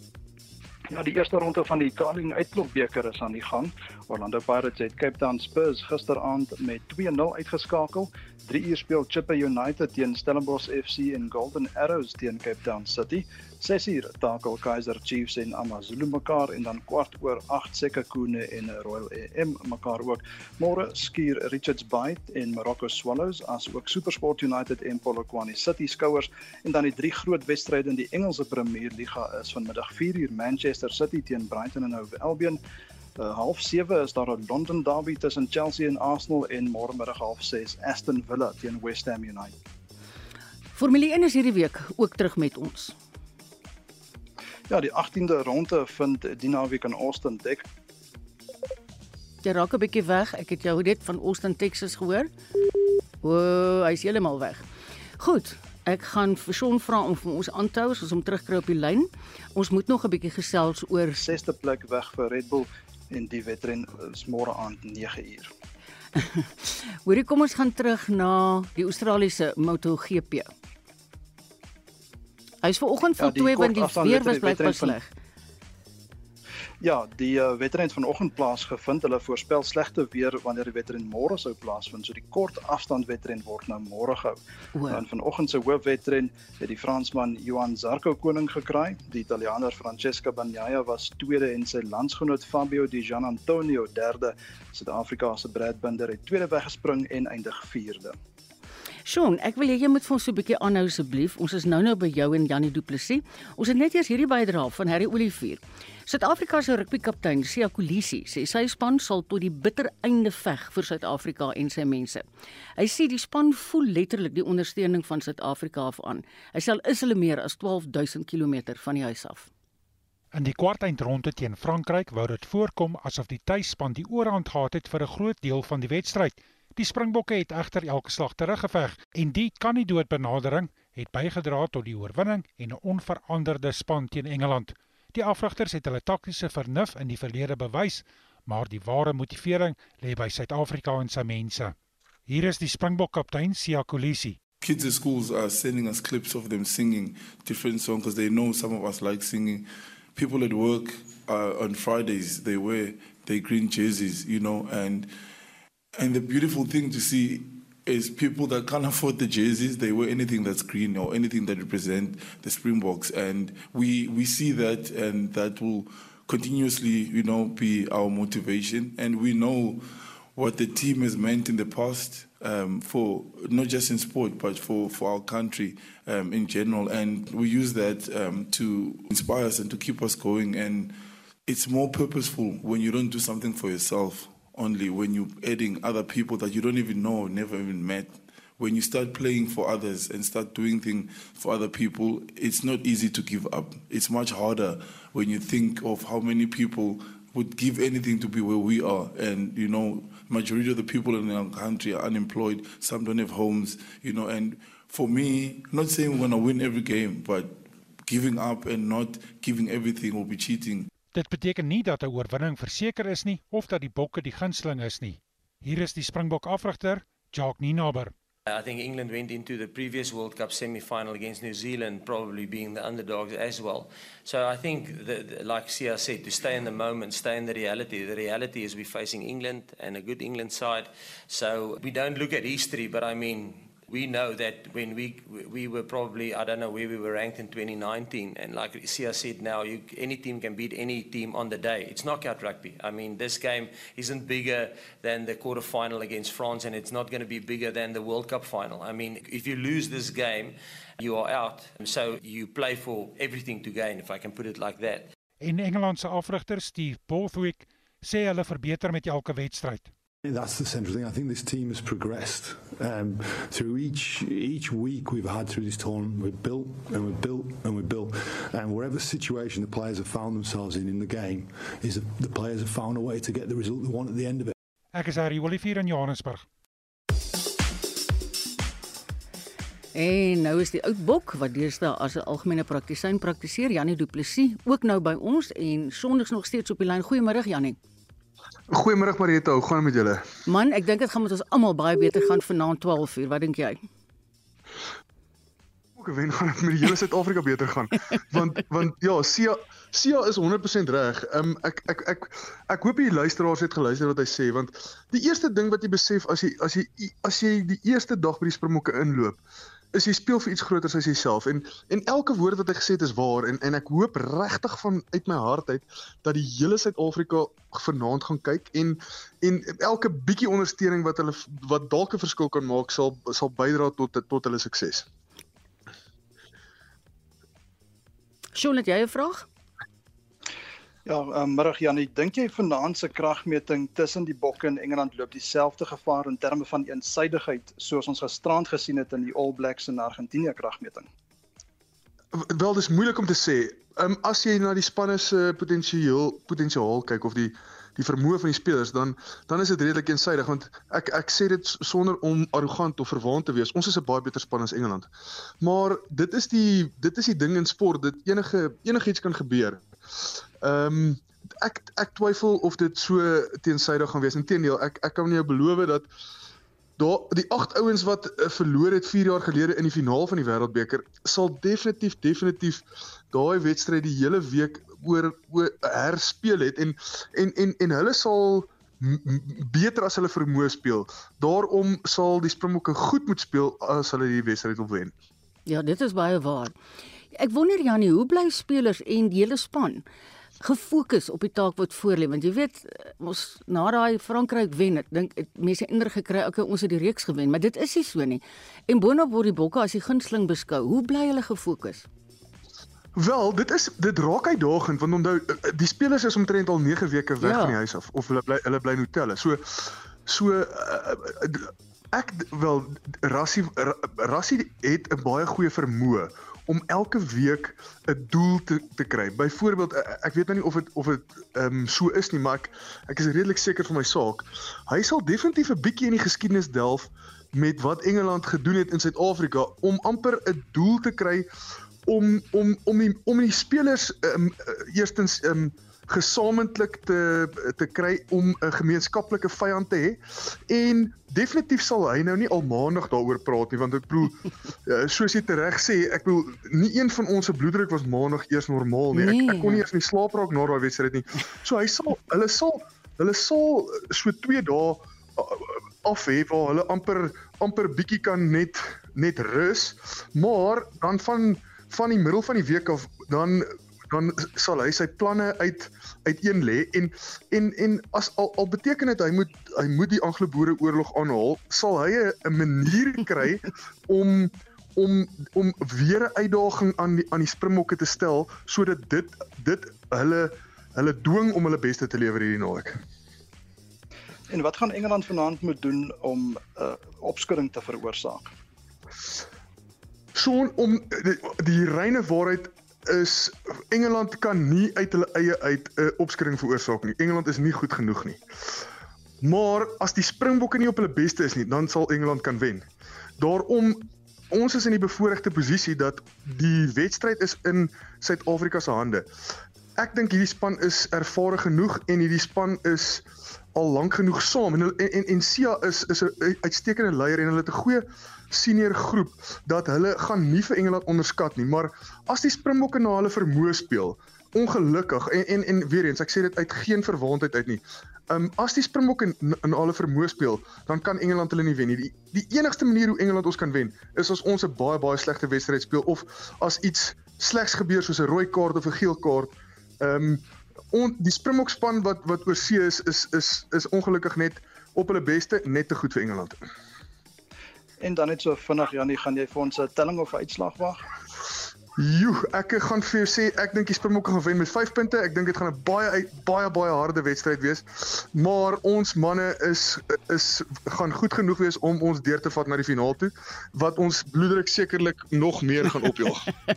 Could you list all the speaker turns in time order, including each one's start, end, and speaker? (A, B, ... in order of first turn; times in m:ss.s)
0:00.9-0:32.6 A
0:33.2-0:39.6 A
0:40.7-0:42.9 B
0:44.7-0:47.6 A
0:49.4-0:52.3 B
0:53.2-0:54.6 B
0:55.2-1:01.3 B
1:01.2-1:05.5 A
1:06.2-1:10.5 B
1:12.6-1:15.1 B
1:13.2-1:15.0 A
1:16.8-1:24.4 A
1:24.7-1:25.0 B
1:24.9-1:38.2 A
1:39.0-1:52.2 B
1:52.8-1:59.5 B
2:00.3-2:21.7 C
2:22.3-2:24.4 C
2:24.6-2:35.1 D
2:35.9-2:49.8 D
2:50.3-3:00.9 D
3:01.4-3:30.9 D
3:31.1-3:38.1 C
3:38.5-4:15.1 E
4:15.4-4:19.9 C
4:20.3-4:34.5 F
4:34.9-4:36.5 C
4:39.9-4:47.8 B
4:48.7-4:50.2 G
4:50.4-4:53.8 B
4:56.0-5:09.4 G
5:09.9-5:25.0 G
5:28.5-5:29.5 B
5:31.0-5:41.1 A
5:42.3-5:55.1 G
5:55.6-6:06.1 G
6:07.0-6:25.1 G
6:25.7-6:26.7 B
6:27.3-6:30.0 B
6:30.6-6:42.0 B
6:43.2-7:11.4 G
6:47.4-6:47.8 B
7:12.0-8:03.0 G
7:29.1-7:29.8 B
8:04.5-8:08.5 A
8:10.4-8:18.4 G
8:19.4-8:22.9 G
8:23.4-8:29.2 G
8:30.0-9:06.6 G
9:08.0-9:11.0 A
9:12.0-9:26.5 G